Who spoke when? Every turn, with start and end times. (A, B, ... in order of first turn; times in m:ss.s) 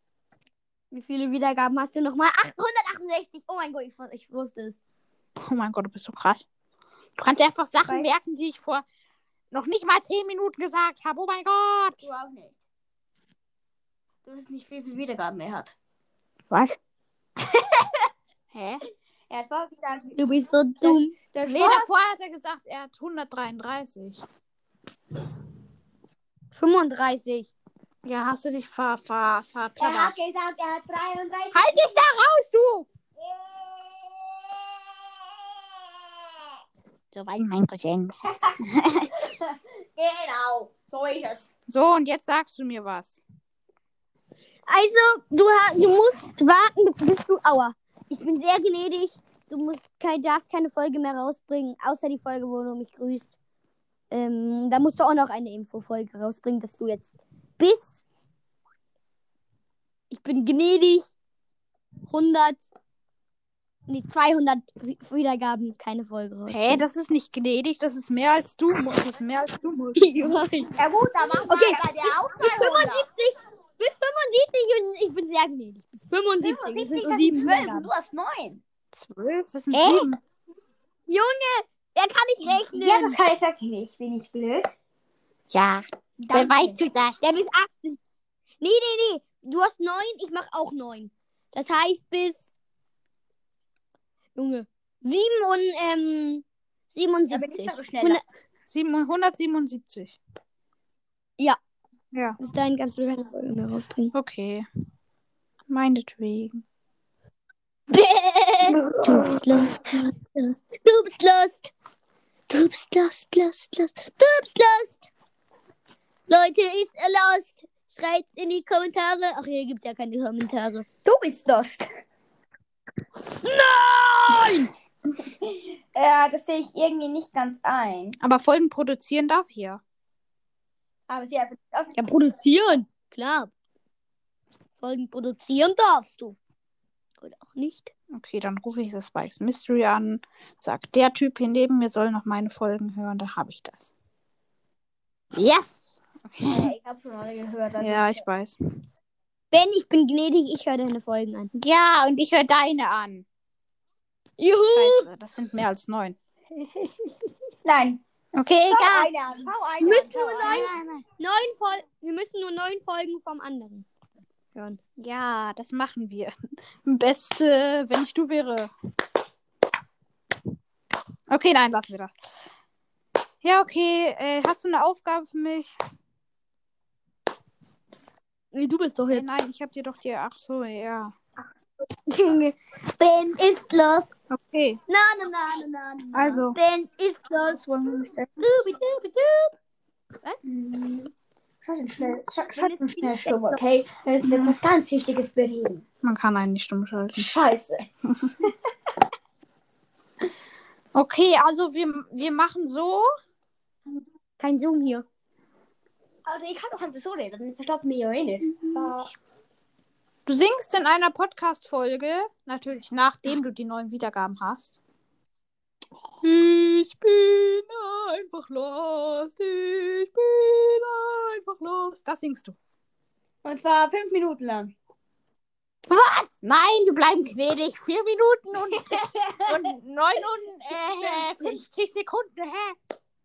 0:00.9-0:04.8 A
0:05.4-0:06.4 B
0:07.2-0:08.8 B
0:09.5-0:12.0 B
0:12.0-0:12.6 C
0:14.2-0:15.8 C
0:17.5-0:17.9 C
0:18.5-0:18.8 B
0:19.3-0:20.2 C
0:20.2-0:21.2 A
0:20.8-0:21.9 C
0:21.5-0:24.2 B
0:26.5-0:27.5 A
0:28.0-0:30.2 B
0:29.8-0:32.0 C
0:31.5-0:32.9 B
0:33.2-0:34.6 C
0:37.1-0:39.1 B
0:39.1-0:41.5 C
0:41.7-0:43.2 B
0:44.7-0:53.3 A
0:54.1-0:58.0 A
1:00.1-1:01.1 A
1:02.1-1:02.7 A
1:03.9-1:06.8 A
1:06.5-1:10.4 B
1:10.0-1:10.7 A
1:10.8-1:13.1 C
1:11.4-1:17.9 A
1:16.4-1:18.6 C
1:18.9-1:20.2 B
1:19.7-1:20.1 A
1:21.1-1:23.2 A
1:22.7-1:24.8 C
1:25.5-1:27.2 B
1:26.2-1:26.8 C
1:27.2-1:28.0 A
1:28.6-1:32.5 A
1:34.4-1:38.2 A
1:37.3-1:38.2 C
1:38.7-1:40.2 B
1:42.4-1:44.1 A
1:44.1-1:44.7 B
1:45.7-1:46.6 B
1:47.9-1:51.7 A
1:52.5-1:55.1 A
1:56.3-2:00.9 A
2:01.0-2:01.9 C
2:03.4-2:04.7 A
2:05.4-2:08.2 C
2:08.2-2:09.8 B
2:11.1-2:11.9 C
2:12.0-2:13.5 A
2:14.8-2:16.4 A
2:17.2-2:17.9 A
2:18.1-2:23.9 B
2:25.4-2:26.7 B
2:26.4-2:28.2 C
2:27.8-2:28.6 B
2:29.5-2:31.5 A
2:31.6-2:33.3 B
2:34.4-2:35.1 A
2:34.7-2:36.9 B
2:37.6-2:38.0 C
2:38.4-2:39.1 B
2:38.7-2:40.7 C
2:39.8-2:43.9 A
2:40.4-2:40.8 B
2:45.0-2:48.7 B
2:51.3-2:52.2 B
2:53.4-2:55.7 B
2:58.5-2:59.3 A
2:59.1-3:01.2 B
3:02.1-3:04.1 A
3:04.3-3:04.8 B
3:04.9-3:09.5 A
3:06.1-3:06.6 B
3:07.6-3:08.3 B
3:10.4-3:11.1 C
3:11.6-3:15.8 C
3:12.6-3:13.6 A
3:14.2-3:14.6 B
3:16.0-3:17.3 B
3:17.2-3:17.9 C
3:20.9-3:23.1 B
3:24.4-3:25.1 A
3:26.2-3:29.1 C
3:28.6-3:28.9 B
3:30.3-3:34.8 B
3:36.2-3:42.6 B
3:43.4-3:44.7 C
3:45.9-3:46.4 A
3:46.4-3:49.0 B
3:48.7-3:49.7 C
3:49.5-3:52.8 B